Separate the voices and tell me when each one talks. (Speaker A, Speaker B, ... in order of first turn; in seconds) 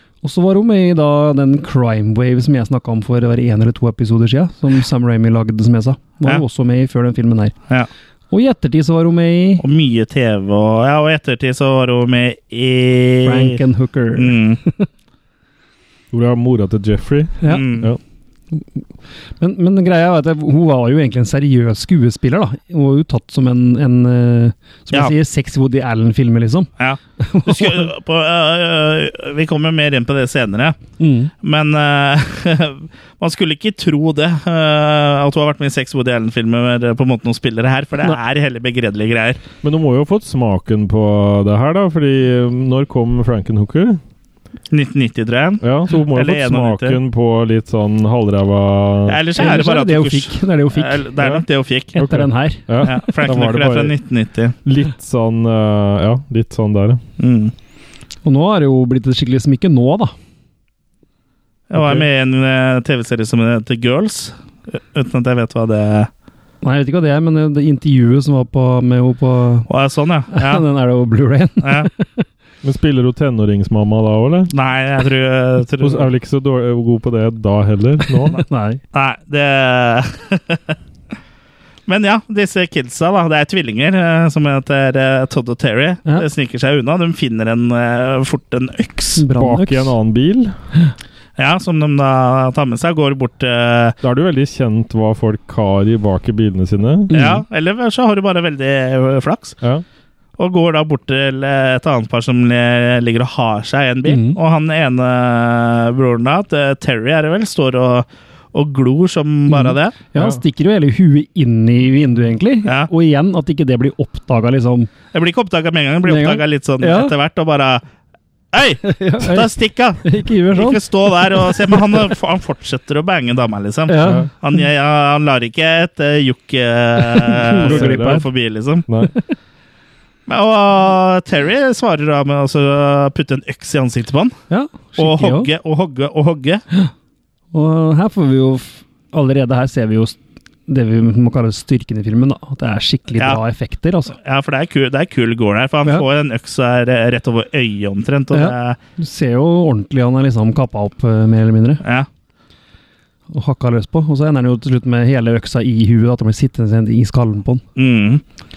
Speaker A: 0.2-7.5, 8.3-9.6, 13.2-14.9, 17.4-17.6, 19.4-27.9, 31.0-31.3, 49.4-51.1, 51.9-53.1, 58.2-60.1, 66.6-69.7, 70.3-72.2, 78.2-78.8, 89.2-89.9, 97.1-97.4, 104.0-104.4, 109.5-114.9, 116.0-117.1, 118.8-122.0, 123.9-124.5, 127.0-128.2, 134.5-135.5, 137.5-144.1, 148.3-151.8, 153.3-157.6
Speaker B: 9.6-13.6, 14.2-14.6, 17.5-17.9, 26.8-30.8, 31.4-39.4, 44.7-47.0, 49.1-52.0, 52.8-54.5, 57.2-57.5, 61.7-66.1, 69.7-70.6, 71.6-71.9, 74.5-76.1, 78.9-80.8, 81.9-89.2, 91.4-94.0, 97.1-99.6, 100.4-109.9, 112.6-112.9, 115.1-117.8, 118.5-128.8, 130.3-134.3, 135.0-136.6, 144.2-148.8, 157.8-158.2
Speaker C: 16.1-18.0, 39.6-44.0, 45.6-49.2, 51.2-54.0, 54.6-57.0, 72.6-74.5, 75.8-78.4, 89.3-90.5, 94.0-97.1, 124.0-124.3, 127.6-128.2, 128.9-129.1